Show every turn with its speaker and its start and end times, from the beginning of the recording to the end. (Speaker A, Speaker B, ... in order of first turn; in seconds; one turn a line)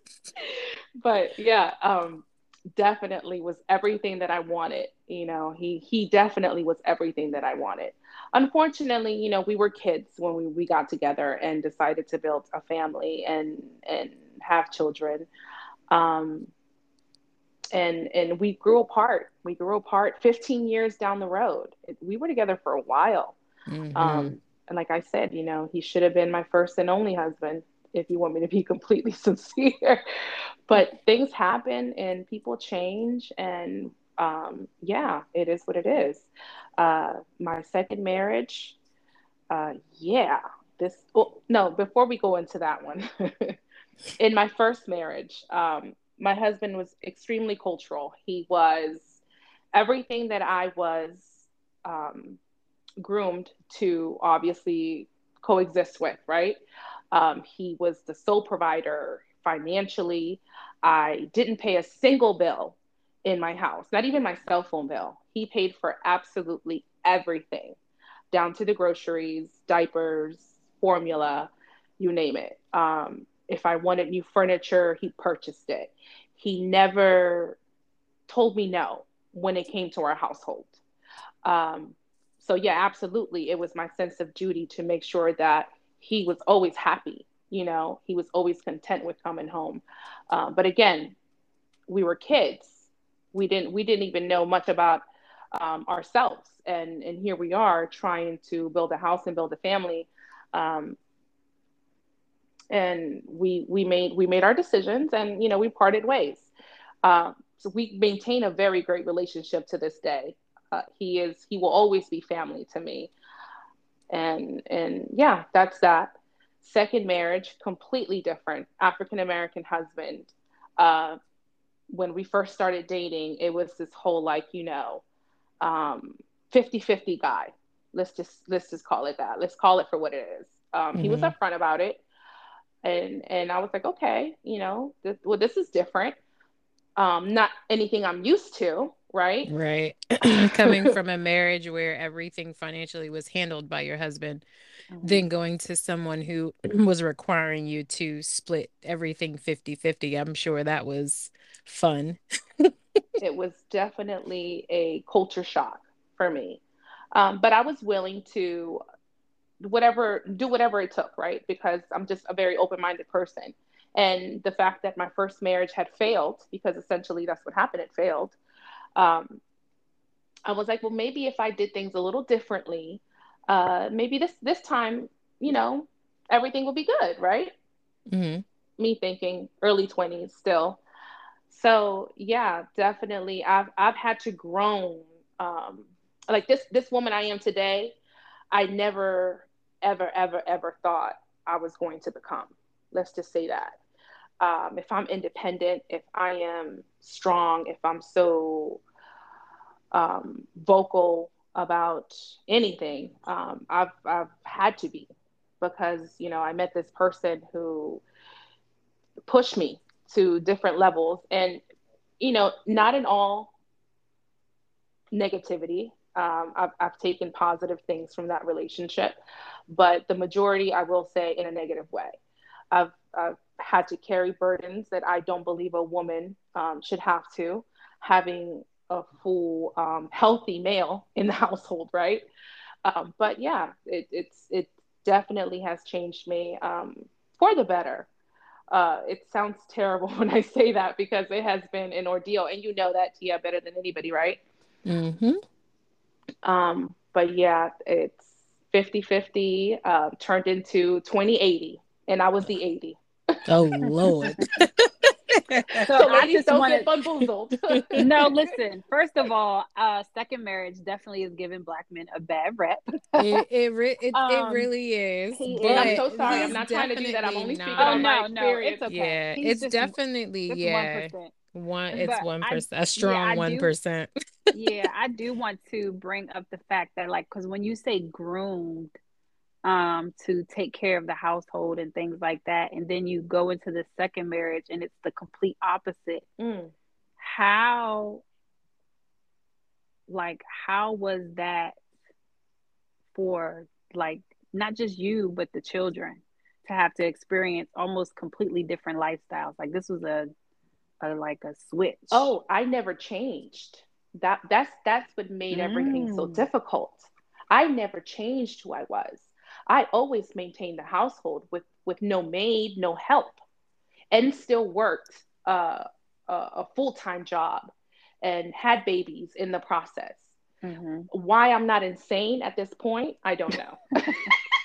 Speaker A: 0.4-15.3
Speaker A: 15.9-16.5
Speaker A: 17.7-23.4
Speaker B: 23.7-24.4
Speaker A: 23.9-30.0
Speaker A: 30.7-36.3
Speaker A: 36.8-38.8
Speaker A: 39.5-43.6
Speaker A: 44.2-49.2
Speaker A: 49.7-52.4
Speaker A: 53.0-56.6
Speaker A: 57.1-67.8
Speaker A: 68.3-77.6
Speaker A: 78.3-80.8
Speaker A: 81.4-91.2
Speaker A: 91.9-101.0
Speaker A: 102.7-106.5
Speaker A: 107.0-113.1
Speaker A: 114.1-121.2
Speaker A: 121.9-125.0
Speaker A: 125.6-132.0
Speaker B: 130.9-131.3
Speaker A: 132.8-136.2
Speaker A: 136.9-139.5
Speaker B: 139.5-144.4
Speaker A: 140.6-140.9
Speaker C: 144.9-145.2
Speaker B: 145.0-153.0
Speaker A: 153.2-156.6
Speaker A: 157.1-158.8
Speaker A: 159.6-168.4
Speaker A: 168.9-169.4
Speaker A: 170.4-177.5
Speaker B: 178.1-178.4
Speaker A: 178.8-180.8
Speaker A: 181.5-187.9
Speaker A: 188.5-193.8
Speaker A: 194.4-198.8
Speaker A: 199.9-205.1
Speaker A: 205.6-208.0
Speaker A: 209.2-211.6
Speaker A: 212.2-213.5
Speaker A: 215.1-219.2
Speaker A: 219.7-222.2
Speaker A: 222.7-232.2
Speaker A: 232.8-238.1
Speaker A: 238.7-244.4
Speaker B: 244.8-245.4
Speaker A: 246.4-253.0
Speaker B: 253.5-255.9
Speaker C: 255.8-256.9
Speaker A: 255.9-258.2
Speaker B: 257.7-257.9
Speaker C: 257.9-263.2
Speaker B: 263.2-268.1
Speaker C: 264.1-264.7
Speaker C: 265.3-266.6
Speaker A: 265.6-268.8
Speaker C: 267.8-269.9
Speaker B: 268.9-274.1
Speaker C: 270.5-271.3
Speaker C: 271.9-273.7
Speaker C: 274.5-278.9
Speaker C: 279.6-286.2
Speaker A: 286.4-286.7
Speaker C: 287.2-288.2
Speaker C: 290.1-291.8
Speaker C: 293.1-300.3
Speaker C: 301.0-302.3
Speaker A: 302.1-313.4
Speaker C: 305.5-306.5
Speaker A: 314.1-320.3
Speaker C: 320.6-321.1
Speaker A: 321.1-323.9
Speaker C: 324.0-324.4